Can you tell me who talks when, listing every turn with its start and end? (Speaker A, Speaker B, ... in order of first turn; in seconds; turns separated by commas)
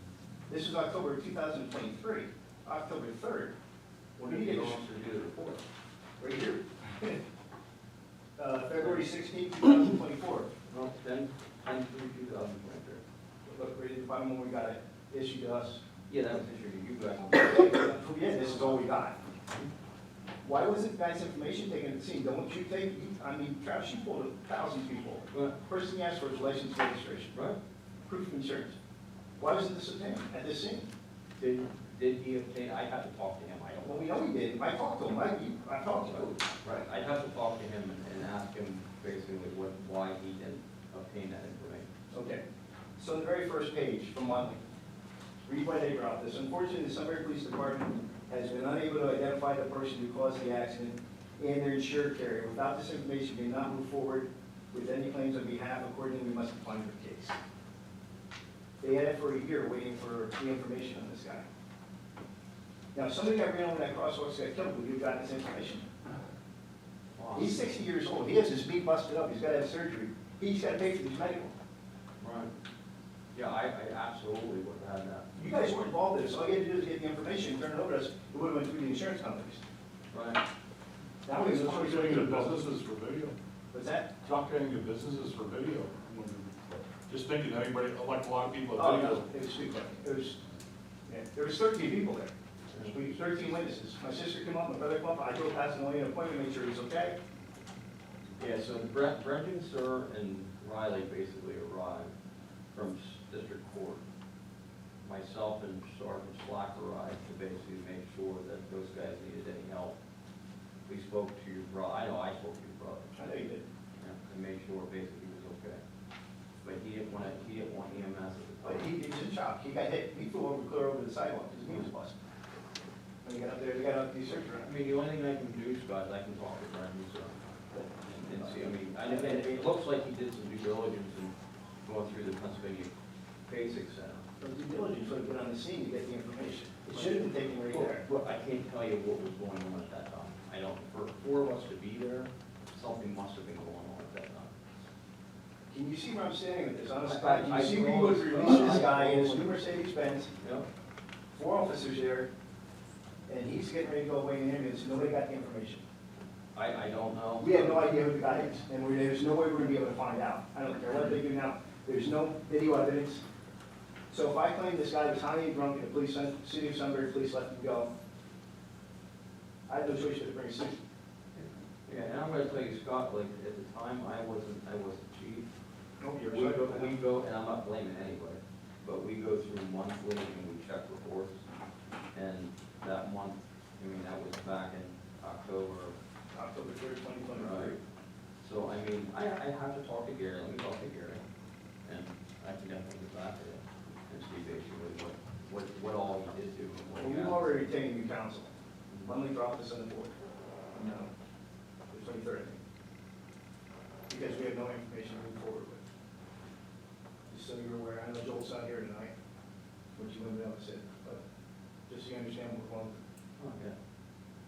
Speaker A: 0.5-3.5, Speaker B: 4.2-5.6, Speaker A: 4.2-4.8, Speaker A: 6.2-7.2, Speaker A: 8.4-10.5, Speaker B: 10.7-13.0, Speaker A: 13.5-15.8, Speaker B: 16.1-18.8, Speaker A: 17.4-19.2, Speaker A: 20.4-27.3, Speaker B: 25.3-25.6, Speaker B: 27.3-27.6, Speaker A: 28.1-28.8, Speaker A: 29.4-30.9, Speaker B: 31.4-34.1, Speaker A: 33.8-36.4, Speaker B: 36.1-41.9, Speaker A: 42.1-42.4, Speaker A: 43.0-44.6, Speaker A: 45.5-57.4, Speaker A: 58.8-61.5, Speaker A: 63.0-65.9, Speaker B: 67.2-67.5, Speaker A: 67.3-71.5, Speaker B: 72.2-72.5, Speaker B: 73.3-75.4, Speaker A: 75.3-79.7, Speaker B: 80.1-80.4, Speaker A: 81.3-82.7, Speaker C: 81.3-83.4, Speaker A: 83.7-84.1, Speaker C: 84.2-89.2, Speaker A: 88.8-90.4, Speaker A: 91.1-97.2, Speaker B: 98.4-102.1, Speaker B: 102.7-104.0, Speaker B: 105.0-110.0, Speaker B: 110.9-113.2, Speaker A: 113.2-113.6, Speaker B: 114.0-115.8, Speaker B: 116.6-118.9, Speaker A: 118.6-122.2, Speaker A: 123.2-124.7, Speaker B: 124.6-127.4, Speaker A: 127.7-129.7, Speaker B: 128.1-132.9, Speaker B: 133.5-134.3, Speaker A: 134.4-138.0, Speaker B: 136.9-144.6, Speaker A: 145.7-150.3, Speaker B: 147.0-149.5, Speaker B: 150.4-150.7, Speaker A: 151.3-152.3, Speaker A: 153.3-155.8, Speaker B: 156.6-157.9, Speaker A: 157.4-163.2, Speaker A: 164.1-167.9, Speaker A: 169.7-170.8, Speaker B: 171.3-175.5, Speaker A: 176.0-176.9, Speaker B: 176.3-181.4, Speaker B: 182.1-185.9, Speaker A: 186.3-187.8, Speaker B: 187.3-187.8, Speaker B: 188.4-191.2, Speaker B: 191.8-197.6, Speaker A: 197.0-198.5, Speaker A: 199.1-200.2, Speaker A: 200.7-201.1, Speaker A: 201.9-202.6, Speaker A: 204.1-205.9, Speaker A: 207.3-209.1, Speaker A: 209.9-211.2, Speaker A: 211.9-213.0, Speaker B: 213.4-213.8